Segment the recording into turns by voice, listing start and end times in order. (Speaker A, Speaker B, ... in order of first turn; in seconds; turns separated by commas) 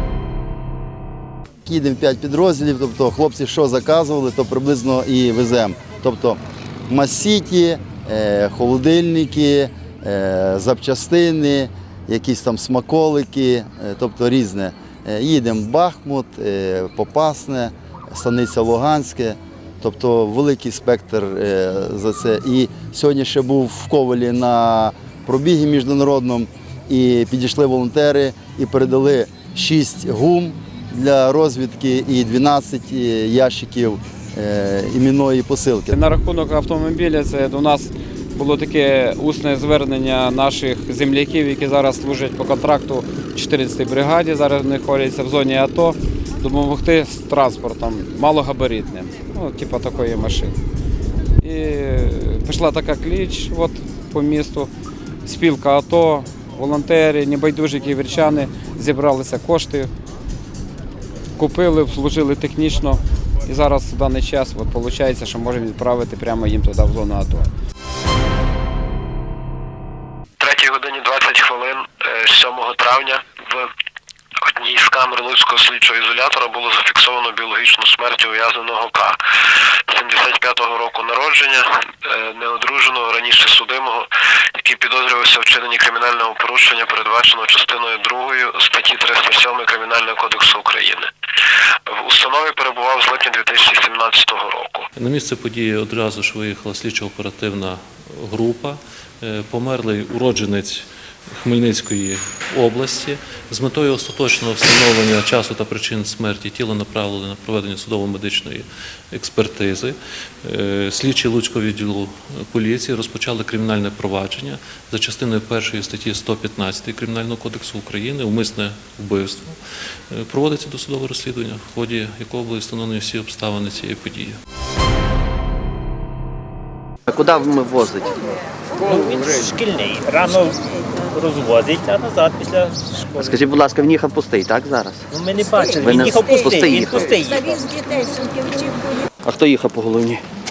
Speaker A: 1.6-35.9, Speaker B: 35.9-50.5, Speaker B: 51.4-54.7, Speaker B: 55.2-59.9, Speaker B: 61.4-67.5, Speaker C: 70.4-73.6, Speaker C: 74.6-79.1, Speaker C: 79.9-81.6, Speaker C: 82.2-84.0, Speaker C: 84.6-91.0, Speaker C: 92.0-94.8, Speaker D: 95.0-124.4, Speaker E: 127.1-128.2, Speaker E: 128.9-129.6, Speaker F: 128.9-130.5, Speaker F: 131.2-132.6, Speaker E: 133.2-137.5, Speaker F: 135.2-137.3, Speaker E: 139.2-140.2